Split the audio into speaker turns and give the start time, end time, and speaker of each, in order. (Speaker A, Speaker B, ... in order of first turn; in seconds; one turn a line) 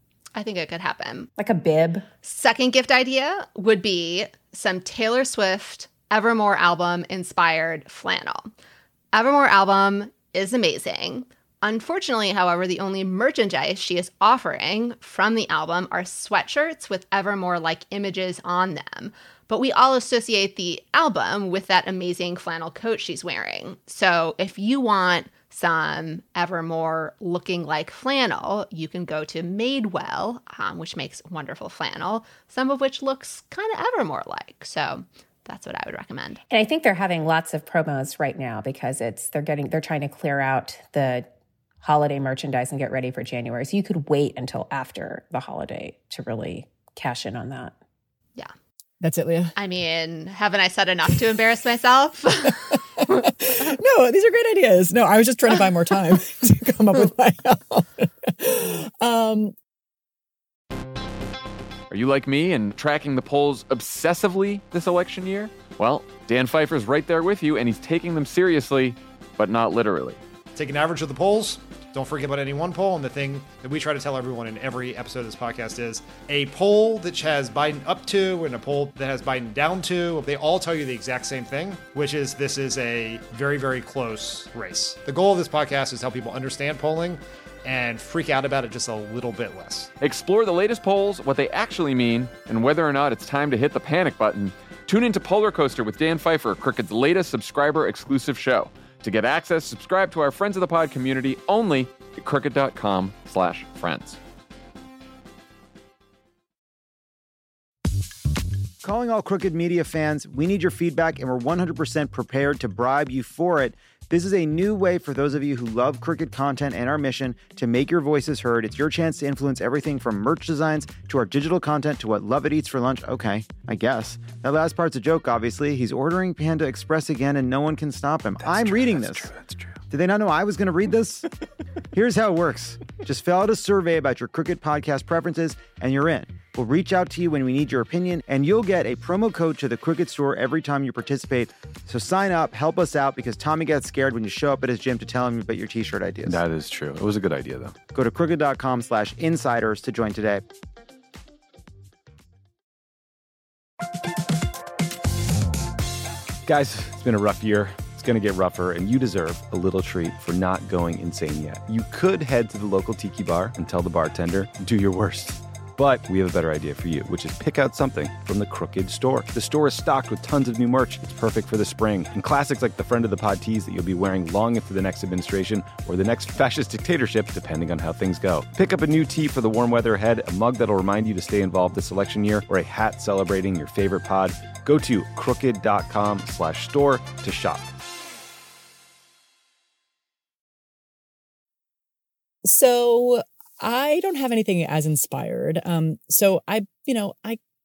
Speaker A: 0.3-1.3
Speaker B: 1.4-2.0
Speaker A: 2.2-8.5
Speaker A: 9.1-36.4
Speaker B: 36.5-41.2
Speaker B: 41.8-47.7
Speaker C: 49.0-49.5
Speaker A: 49.5-53.2
Speaker C: 53.0-59.5
Speaker D: 61.9-70.2
Speaker E: 70.5-89.9
Speaker D: 90.0-104.2
Speaker F: 108.8-129.3
Speaker G: 128.4-129.7
Speaker F: 129.9-131.3
Speaker F: 131.9-146.4
Speaker G: 146.2-147.7
Speaker F: 147.9-150.4
Speaker G: 156.4-187.6
Speaker C: 192.4-197.4